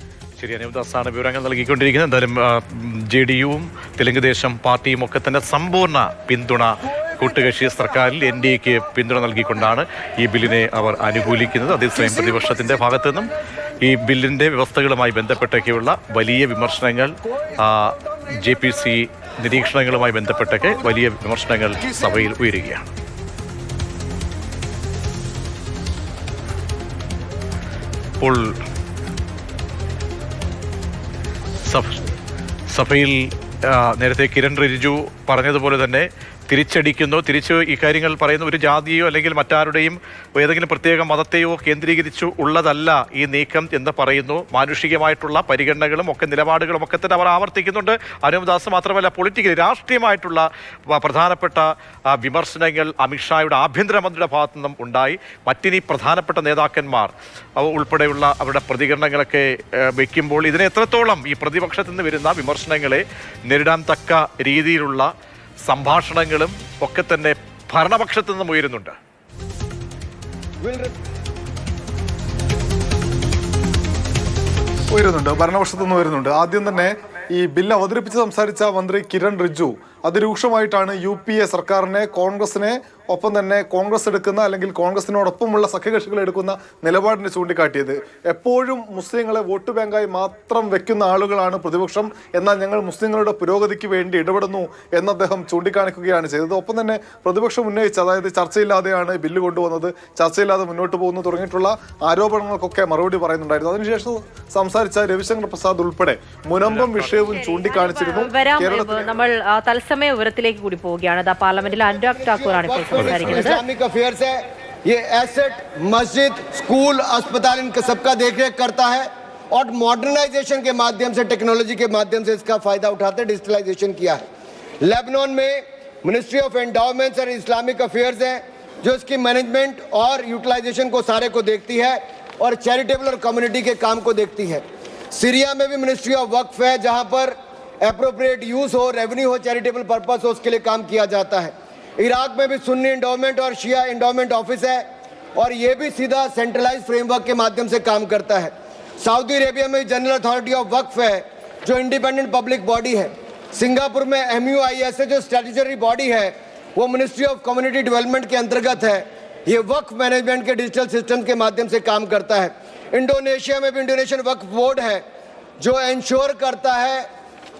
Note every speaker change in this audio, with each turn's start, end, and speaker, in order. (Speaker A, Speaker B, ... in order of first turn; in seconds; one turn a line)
Speaker A: 0.4-22.9
Speaker A: 28.2-28.6
Speaker A: 31.6-32.0
Speaker A: 32.7-65.1
Speaker A: 65.6-69.0
Speaker B: 70.6-70.9
Speaker C: 74.9-109.1
Speaker A: 106.6-107.3
Speaker D: 107.2-113.6
Speaker B: 112.1-124.2
Speaker A: 113.0-113.3
Speaker B: 124.8-144.8
Speaker B: 145.3-165.0
Speaker B: 165.6-167.1